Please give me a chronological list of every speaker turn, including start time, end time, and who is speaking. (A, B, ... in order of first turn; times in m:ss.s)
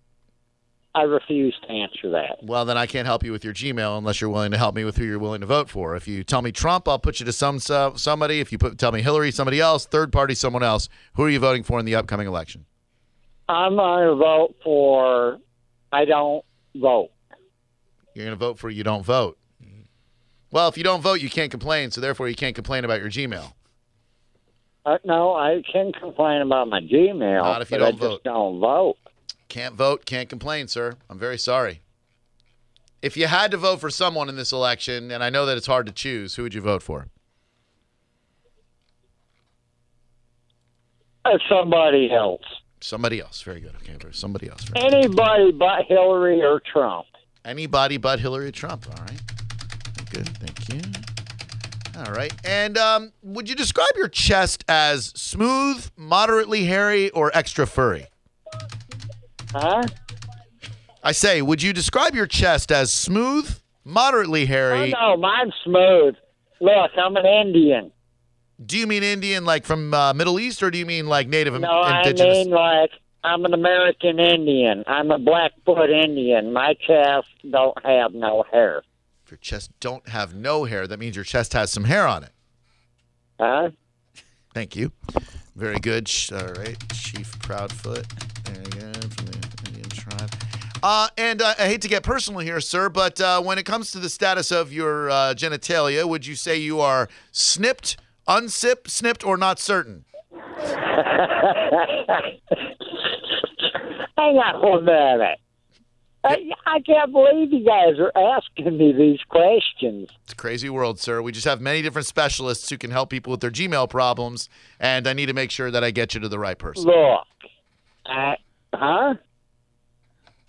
0:00.9-0:02.4 A
0:02.4-0:12.6 B
0:13.5-0:15.4 A
0:15.9-0:17.1 A
0:18.2-0:19.4 B
0:20.5-0:23.5 B
0:24.9-0:29.0 A
0:27.4-0:28.2 B
0:29.5-0:31.8 B
0:33.0-0:37.1 B
0:41.2-0:42.4 A
0:42.8-0:44.9 B
0:44.8-0:47.1 A
0:47.4-0:49.2 B
0:50.0-0:51.0 B
0:51.9-0:58.1 B
0:59.5-0:59.9 A
1:01.0-1:05.0 B
1:04.7-1:07.9 A
1:08.6-1:12.4 B
1:11.5-1:18.8 A
1:19.3-1:22.3 B
1:23.4-1:23.7 A
1:24.5-1:24.9 B
1:25.6-1:40.0 B
1:40.6-1:42.3 A
1:43.7-1:45.4 A
1:46.2-1:50.1 A
1:50.3-1:56.9 B
1:56.8-1:57.3 A
1:58.1-1:59.2 A